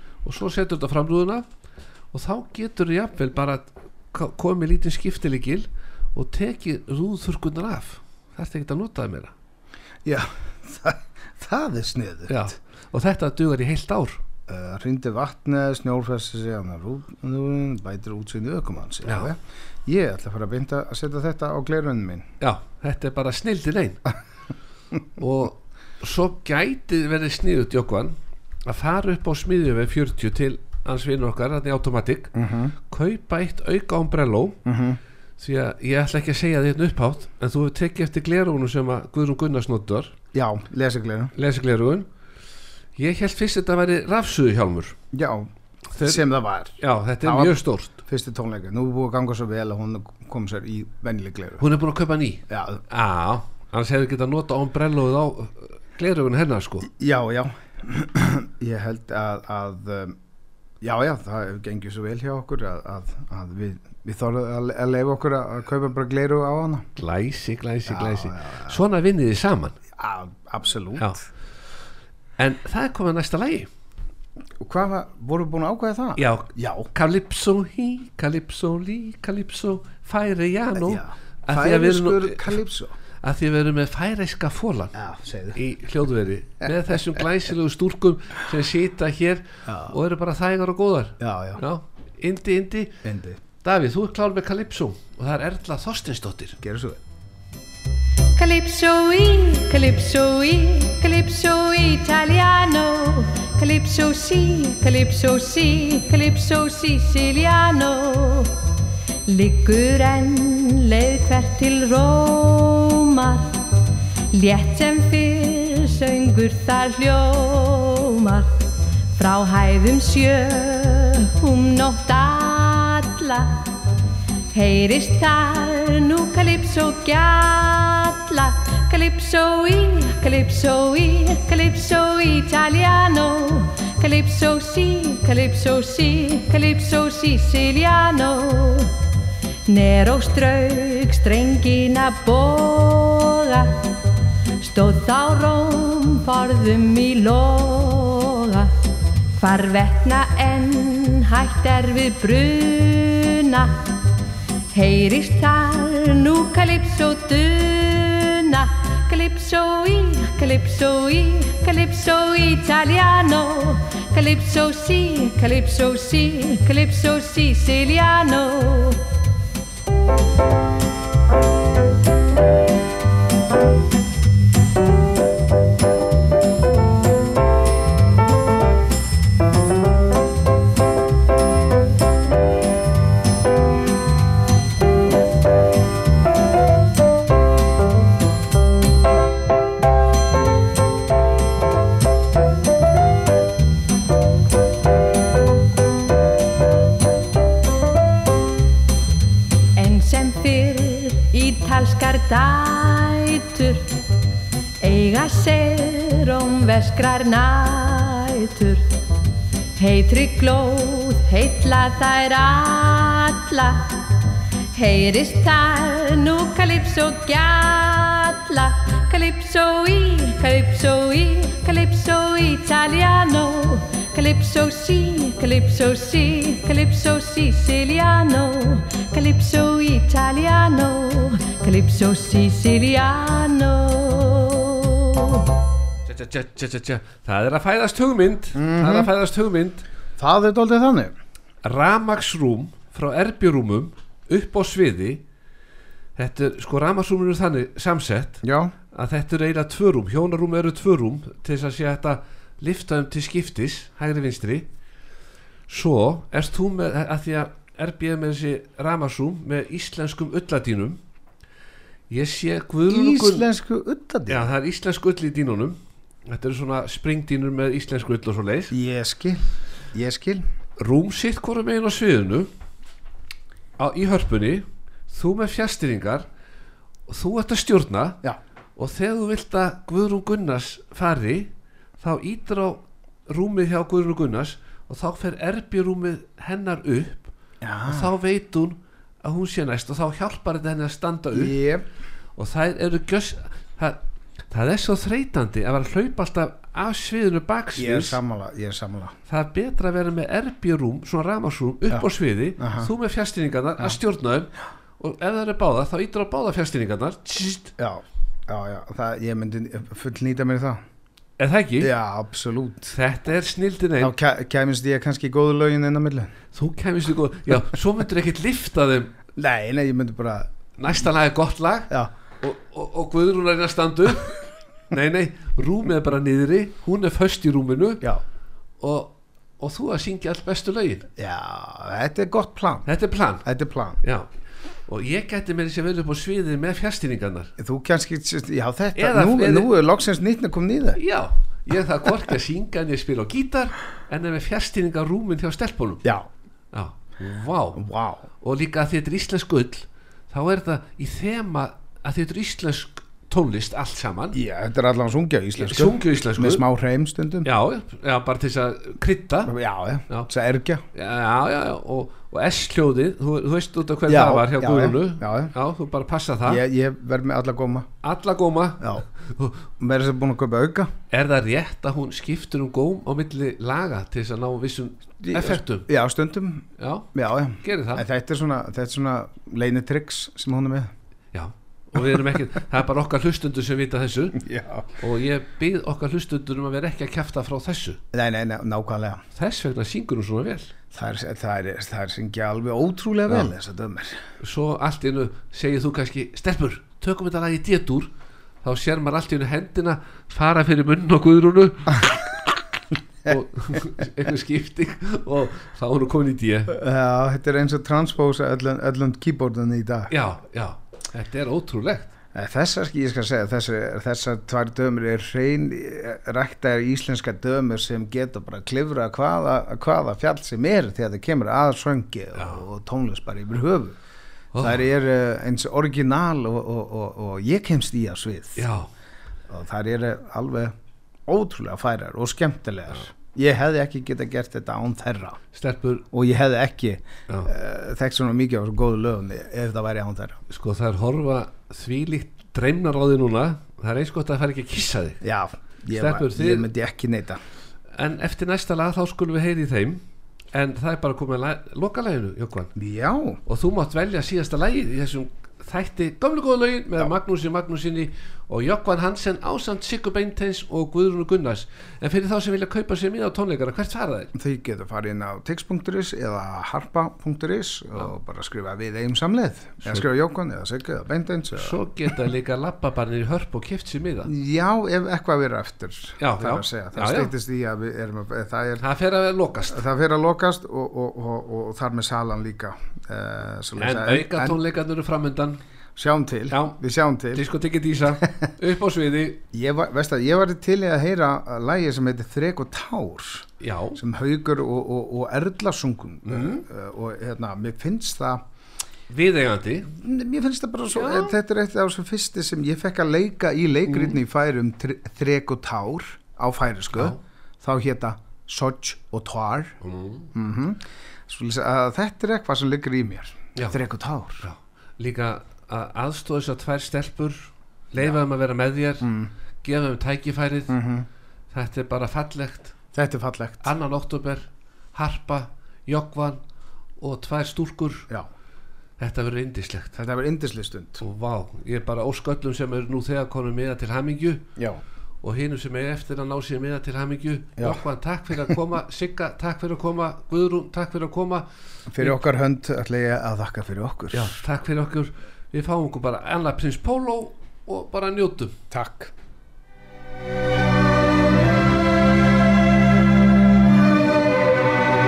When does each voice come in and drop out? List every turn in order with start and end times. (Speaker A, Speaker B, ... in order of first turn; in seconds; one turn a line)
Speaker A: 0.2-1.4
Speaker A: 2.1-9.3
Speaker B: 10.1-12.5
Speaker A: 12.3-14.2
Speaker B: 14.5-22.3
Speaker A: 19.1-19.3
Speaker A: 22.4-24.1
Speaker A: 25.2-32.3
Speaker B: 32.4-32.8
Speaker A: 32.9-34.6
Speaker B: 34.6-35.0
Speaker A: 35.4-40.1
Speaker B: 40.3-41.3
Speaker A: 41.4-42.1
Speaker A: 43.0-45.0
Speaker B: 45.1-51.7
Speaker A: 46.0-46.2
Speaker A: 46.8-48.0
Speaker A: 51.6-56.9
Speaker B: 52.5-52.8
Speaker B: 56.9-60.2
Speaker B: 60.8-66.9
Speaker A: 67.0-69.8
Speaker B: 67.9-68.8
Speaker B: 70.0-71.2
Speaker A: 72.4-73.7
Speaker B: 74.6-76.9
Speaker A: 76.2-82.6
Speaker B: 80.8-82.9
Speaker A: 83.2-85.0
Speaker B: 85.0-85.6
Speaker A: 85.5-93.0
Speaker B: 89.7-90.0
Speaker B: 91.2-91.6
Speaker B: 93.0-93.4
Speaker A: 93.6-96.6
Speaker B: 96.6-97.0
Speaker C: 98.4-108.5
Speaker C: 109.3-113.5
Speaker C: 114.3-118.5
Speaker C: 119.2-123.5
Speaker C: 124.5-138.9
Speaker C: 139.7-143.7
Speaker C: 144.6-148.7
Speaker C: 149.4-153.8
Speaker C: 154.7-169.0
Speaker C: 199.8-203.8
Speaker C: 204.8-208.8
Speaker C: 209.8-213.8
Speaker C: 214.7-235.5
Speaker A: 236.1-239.8
Speaker B: 238.5-239.1
Speaker B: 240.2-241.2
Speaker A: 241.6-245.2
Speaker A: 246.2-248.4
Speaker B: 248.4-248.7
Speaker A: 248.9-254.7
Speaker A: 255.7-261.0
Speaker A: 262.1-263.5
Speaker B: 262.9-264.5
Speaker A: 264.3-268.7
Speaker B: 268.7-270.4
Speaker A: 270.8-272.5
Speaker A: 273.8-276.2
Speaker A: 277.1-278.2
Speaker A: 278.8-287.3
Speaker B: 287.6-288.1
Speaker A: 287.9-291.6
Speaker B: 291.3-291.9
Speaker A: 292.4-298.2
Speaker B: 297.8-299.2
Speaker A: 299.3-307.7
Speaker B: 302.6-302.9
Speaker B: 307.8-310.8
Speaker A: 311.4-311.9
Speaker B: 311.8-313.0
Speaker A: 312.9-314.1
Speaker B: 314.0-316.3
Speaker A: 316.5-319.1
Speaker B: 319.4-320.5
Speaker A: 320.8-328.1
Speaker A: 328.8-331.1
Speaker B: 331.2-332.9
Speaker A: 332.9-333.4
Speaker B: 333.4-334.0
Speaker A: 334.9-337.5
Speaker B: 337.6-341.0
Speaker A: 338.9-339.7
Speaker A: 341.0-346.1
Speaker A: 346.7-347.8
Speaker B: 347.8-348.2
Speaker A: 348.4-354.4
Speaker B: 354.3-357.5
Speaker A: 355.6-356.6
Speaker A: 357.4-359.5
Speaker B: 359.5-360.8
Speaker A: 360.9-366.6
Speaker B: 364.1-365.5
Speaker B: 366.4-367.9
Speaker A: 368.0-369.7
Speaker B: 369.8-370.9
Speaker A: 371.1-375.9
Speaker B: 375.2-380.9
Speaker A: 376.8-377.1
Speaker A: 377.6-378.1
Speaker A: 381.3-384.4
Speaker B: 384.4-384.9
Speaker A: 385.0-388.0
Speaker B: 388.1-389.2
Speaker A: 389.4-390.7
Speaker B: 390.9-394.2
Speaker A: 394.4-398.1
Speaker A: 398.6-402.1
Speaker A: 403.3-406.7
Speaker B: 406.7-410.1
Speaker A: 410.1-412.1
Speaker B: 412.3-424.0
Speaker A: 422.4-422.6
Speaker A: 424.5-424.8
Speaker B: 424.6-428.7
Speaker A: 428.6-428.9
Speaker B: 429.5-430.8
Speaker B: 431.3-435.4
Speaker A: 435.5-436.1
Speaker B: 436.1-440.4
Speaker A: 440.5-445.2
Speaker B: 445.2-447.4
Speaker A: 445.9-446.7
Speaker A: 448.0-450.0
Speaker A: 450.5-452.7
Speaker B: 452.8-453.4
Speaker A: 453.5-464.3
Speaker B: 464.3-471.8
Speaker A: 471.5-474.3
Speaker B: 474.2-478.9
Speaker A: 476.2-477.3
Speaker A: 478.8-479.8
Speaker B: 479.7-484.6
Speaker A: 483.8-485.6
Speaker B: 486.0-487.4
Speaker A: 486.5-486.8
Speaker A: 487.3-489.4
Speaker B: 489.5-498.4
Speaker A: 493.6-494.0
Speaker A: 496.3-496.6
Speaker A: 499.1-499.9
Speaker B: 499.9-509.8
Speaker A: 500.9-501.3
Speaker A: 503.9-504.2
Speaker A: 506.9-507.2
Speaker A: 509.8-510.3
Speaker B: 510.3-514.5
Speaker A: 514.4-519.1
Speaker B: 519.0-519.3
Speaker A: 519.6-520.8
Speaker B: 520.7-521.1
Speaker A: 521.5-522.7
Speaker B: 522.9-523.7
Speaker A: 523.6-526.4
Speaker A: 527.0-528.1
Speaker A: 529.0-530.0
Speaker B: 530.0-531.0
Speaker A: 531.0-534.5
Speaker A: 535.2-541.5
Speaker B: 537.6-537.8
Speaker B: 541.9-544.4
Speaker A: 544.1-548.6
Speaker B: 548.7-549.1